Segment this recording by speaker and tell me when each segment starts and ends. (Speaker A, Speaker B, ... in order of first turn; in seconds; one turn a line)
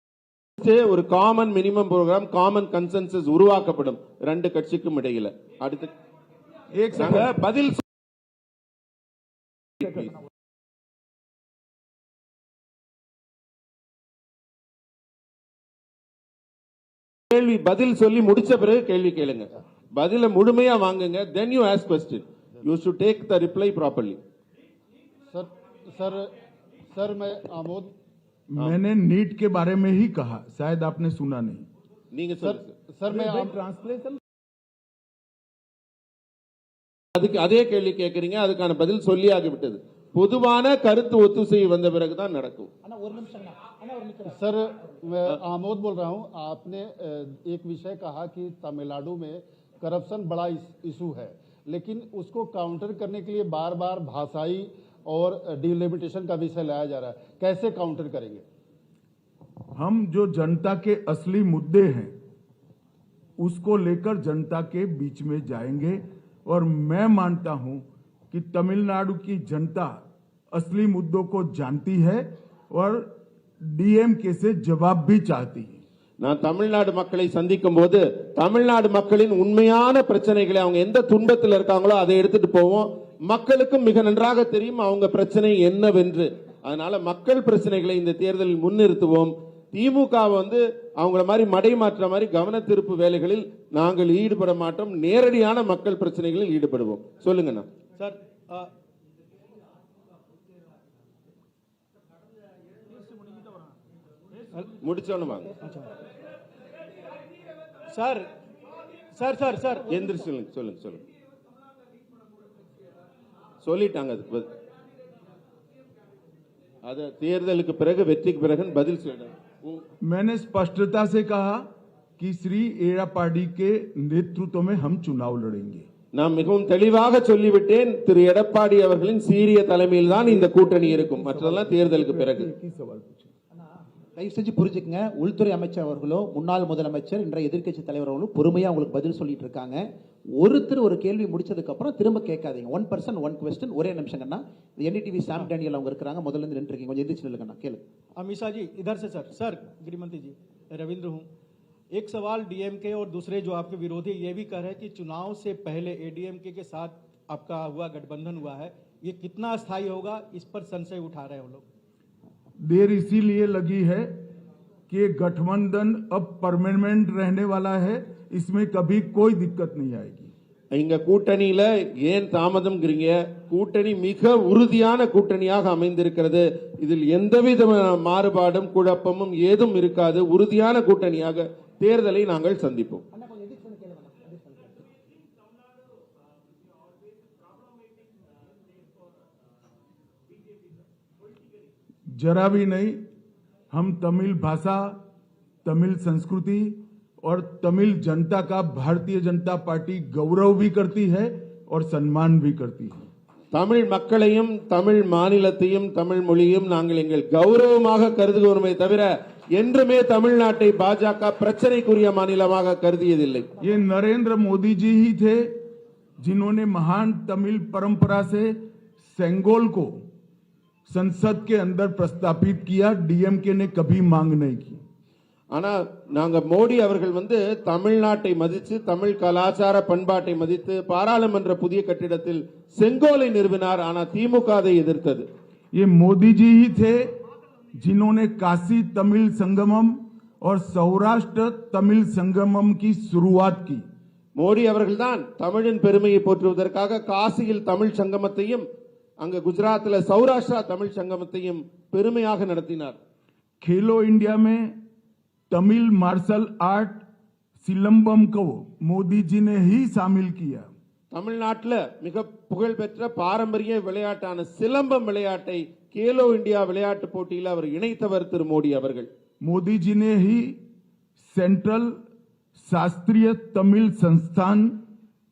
Speaker A: 0.6-5.9
Speaker B: 6.7-7.3
Speaker A: 7.0-7.8
Speaker A: 9.8-10.1
Speaker A: 17.3-24.2
Speaker C: 25.3-26.3
Speaker C: 26.9-27.9
Speaker B: 28.5-31.7
Speaker A: 32.1-32.7
Speaker C: 32.4-33.5
Speaker B: 33.1-34.2
Speaker A: 37.2-42.7
Speaker D: 43.1-44.2
Speaker C: 44.2-58.4
Speaker B: 59.8-62.1
Speaker B: 63.4-70.0
Speaker B: 70.5-73.1
Speaker B: 73.6-75.8
Speaker A: 76.2-97.7
Speaker E: 98.0-98.7
Speaker A: 104.8-105.6
Speaker E: 105.6-106.0
Speaker E: 107.9-108.3
Speaker E: 109.1-109.9
Speaker A: 109.9-111.0
Speaker A: 113.6-114.5
Speaker A: 116.8-119.8
Speaker B: 120.0-121.7
Speaker B: 122.2-125.9
Speaker A: 126.2-132.5
Speaker B: 130.1-133.3
Speaker D: 134.2-139.8
Speaker D: 140.4-147.8
Speaker E: 148.2-151.3
Speaker E: 151.9-161.6
Speaker B: 162.6-164.2
Speaker B: 164.9-170.3
Speaker A: 170.7-183.0
Speaker D: 183.3-184.6
Speaker B: 192.2-193.0
Speaker B: 193.7-195.0
Speaker B: 195.7-203.0
Speaker A: 203.5-213.5
Speaker B: 213.6-215.6
Speaker B: 216.2-220.0
Speaker B: 220.9-224.8
Speaker A: 225.5-235.3
Speaker B: 235.7-237.1
Speaker B: 237.8-243.8
Speaker A: 244.4-248.6
Speaker A: 249.2-253.0
Speaker B: 253.6-254.8
Speaker B: 255.5-257.0
Speaker B: 257.6-260.7
Speaker A: 261.1-269.1
Speaker B: 269.4-270.6
Speaker B: 271.2-272.0
Speaker B: 272.6-274.8